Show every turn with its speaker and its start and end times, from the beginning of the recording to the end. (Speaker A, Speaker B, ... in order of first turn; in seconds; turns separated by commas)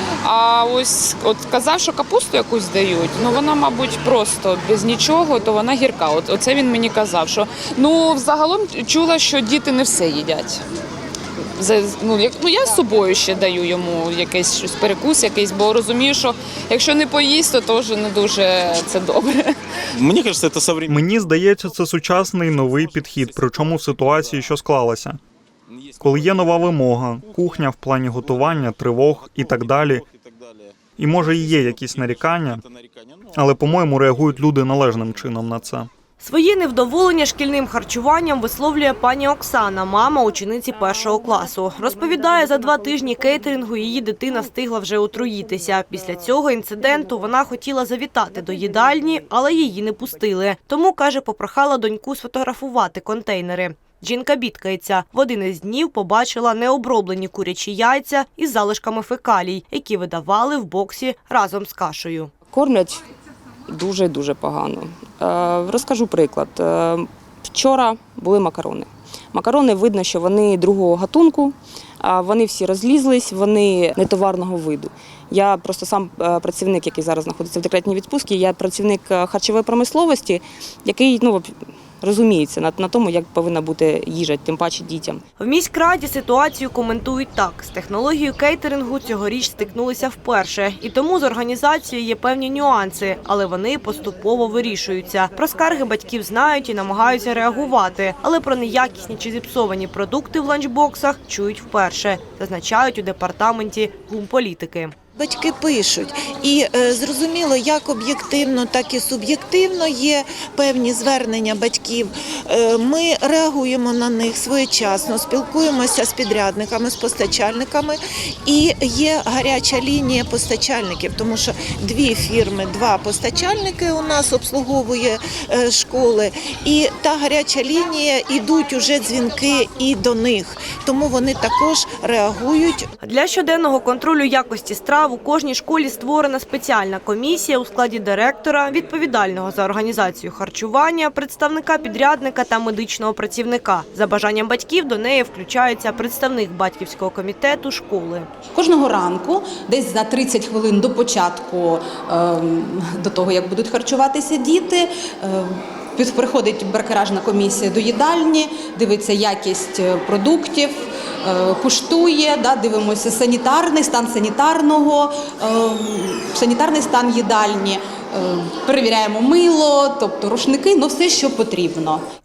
Speaker A: 0.2-10.6, Speaker A: 11.6-19.6, Speaker B: 20.0-21.0, Speaker C: 20.9-25.2, Speaker B: 22.7-23.4, Speaker B: 25.8-26.2, Speaker C: 26.0-30.0, Speaker B: 29.2-30.6, Speaker C: 31.0-32.6, Speaker B: 31.6-33.3, Speaker C: 33.3-35.9, Speaker D: 36.2-62.3, Speaker E: 63.7-81.5, Speaker E: 82.0-85.2, Speaker D: 85.4-104.9, Speaker F: 105.1-132.9, Speaker D: 133.0-148.3, Speaker G: 148.5-172.0